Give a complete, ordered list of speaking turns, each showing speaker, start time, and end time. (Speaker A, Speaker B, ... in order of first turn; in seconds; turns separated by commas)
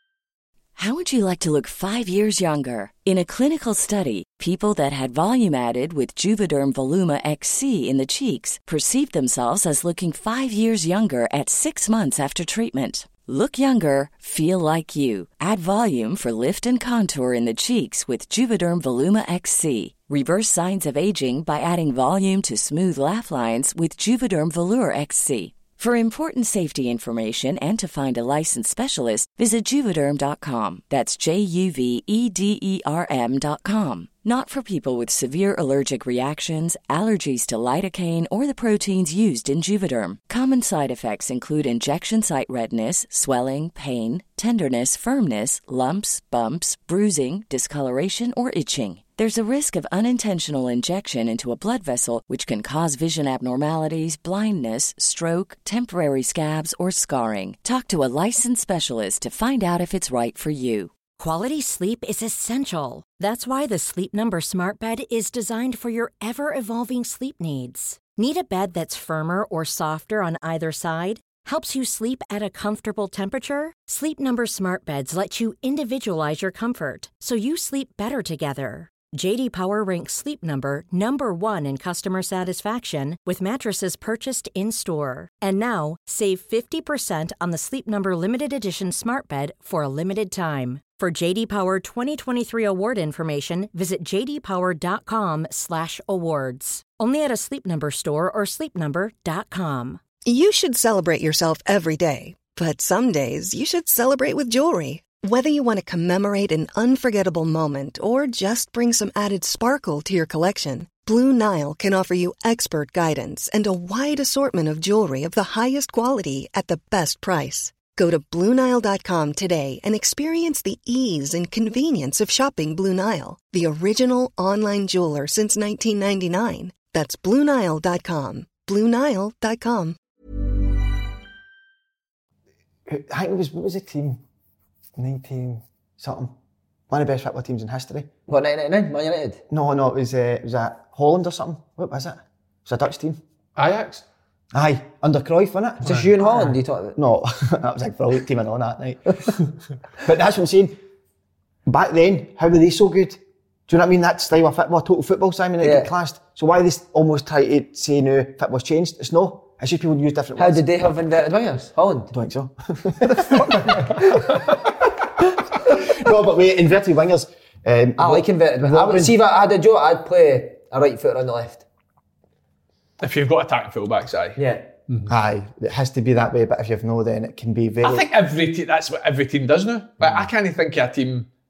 Speaker A: 0.8-61.0, Speaker B: 61.1-100.0, Speaker C: 100.2-130.0, Speaker D: 132.8-134.2, Speaker D: 135.0-136.3, Speaker D: 136.9-138.1, Speaker E: 138.3-139.4, Speaker D: 139.5-143.2, Speaker F: 143.6-144.0, Speaker D: 144.5-149.3, Speaker E: 145.8-146.9, Speaker D: 150.0-150.8, Speaker D: 151.7-160.7, Speaker E: 155.6-155.9, Speaker E: 160.4-162.1, Speaker D: 162.1-164.0, Speaker D: 165.6-169.2, Speaker E: 168.0-171.6, Speaker F: 173.0-174.4, Speaker E: 174.3-174.7, Speaker D: 175.1-178.1, Speaker F: 177.8-181.3